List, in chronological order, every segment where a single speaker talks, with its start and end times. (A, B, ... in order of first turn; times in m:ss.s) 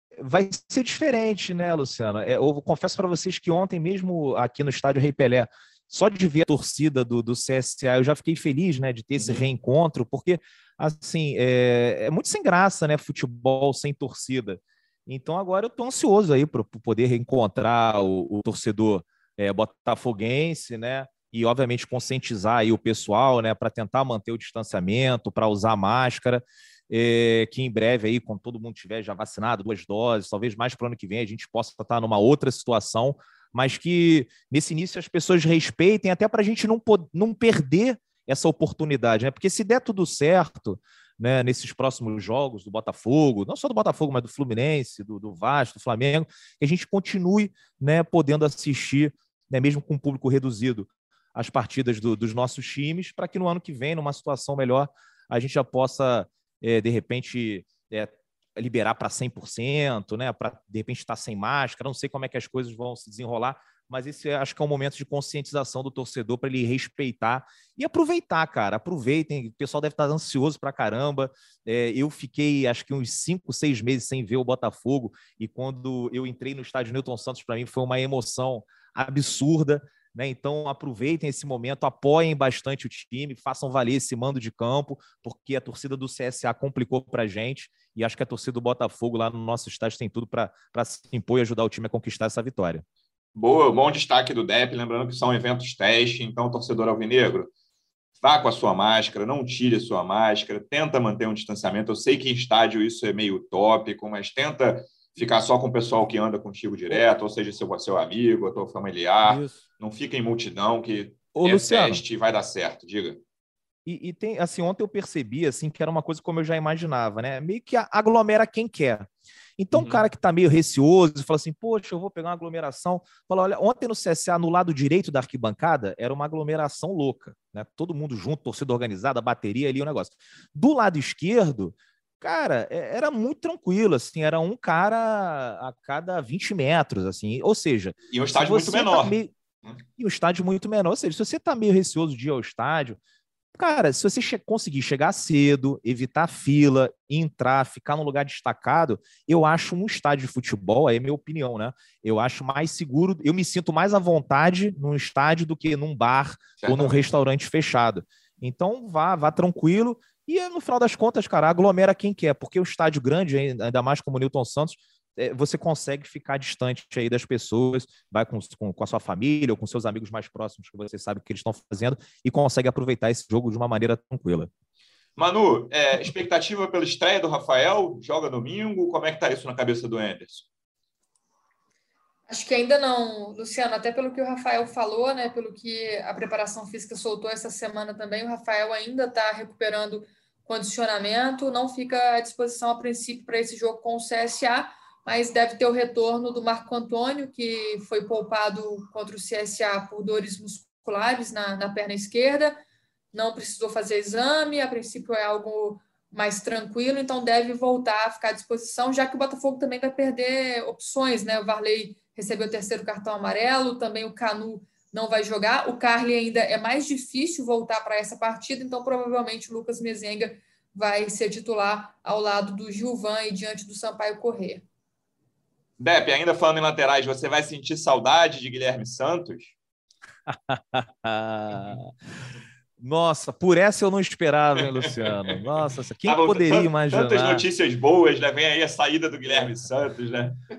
0:00.2-1:32.8 A
0:09.2-0:09.4 B
1:33.3-1:37.5 B
1:38.2-1:53.2 B
1:49.2-1:49.6 A
1:51.3-1:52.0 A
1:53.8-2:19.3 A
1:59.7-2:00.0 B
2:18.1-2:19.8 B
2:20.0-2:23.0 A
2:23.5-2:54.5 A
2:36.6-2:37.0 B
2:55.2-3:00.5 B
3:02.3-3:22.6 C
3:23.1-3:44.6 C
3:45.8-3:49.5 B
3:50.3-3:51.9 A
3:52.8-3:57.4 A
3:54.9-3:55.4 B
3:56.0-4:00.4 B
3:59.3-3:59.6 A